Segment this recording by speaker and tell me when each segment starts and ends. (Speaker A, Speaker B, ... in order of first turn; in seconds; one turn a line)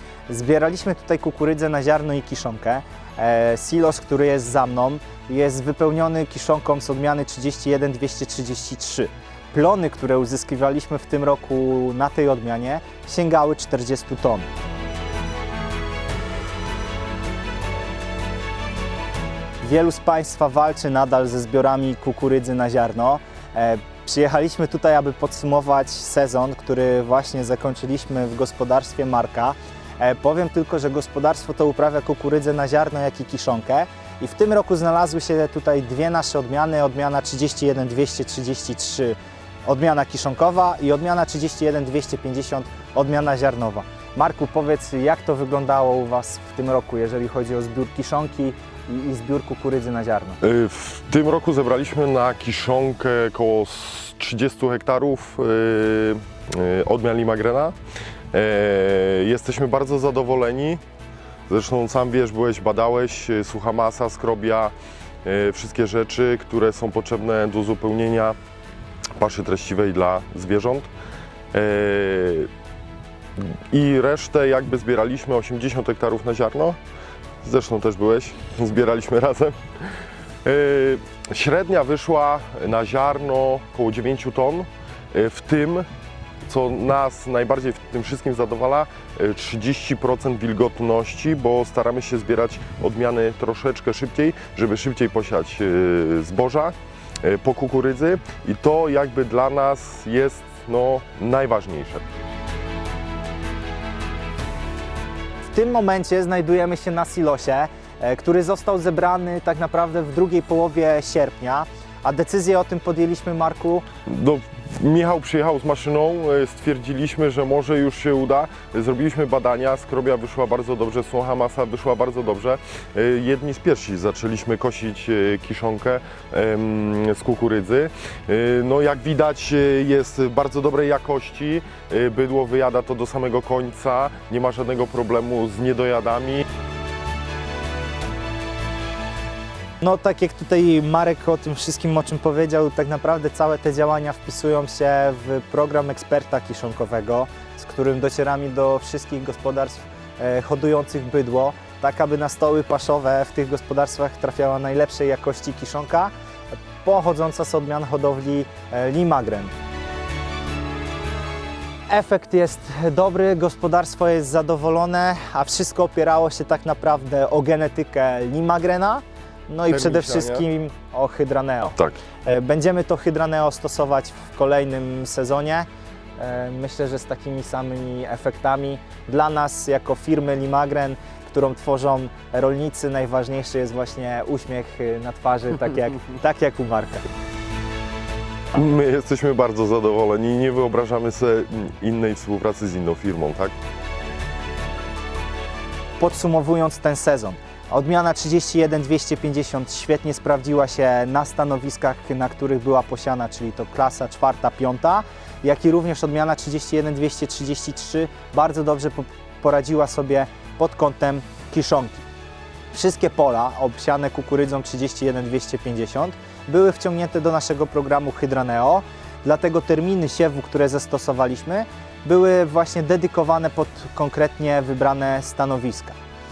Speaker A: 0.3-14.5
Speaker A: 19.6-50.4
Speaker B: 50.4-57.7
Speaker B: 58.3-60.8
Speaker B: 61.5-64.7
Speaker B: 65.2-68.4
Speaker B: 69.2-70.9
Speaker B: 71.5-72.5
Speaker B: 73.4-76.8
Speaker B: 77.4-79.5
Speaker B: 80.4-85.9
Speaker B: 86.5-102.0
Speaker A: 105.5-113.8
Speaker B: 114.1-136.4
Speaker A: 139.8-156.1
Speaker A: 156.8-159.5
Speaker A: 161.9-175.7
Speaker B: 169.7-170.4
Speaker A: 176.2-187.0
Speaker B: 188.5-193.5
Speaker A: 196.0-212.1
Speaker A: 212.7-226.0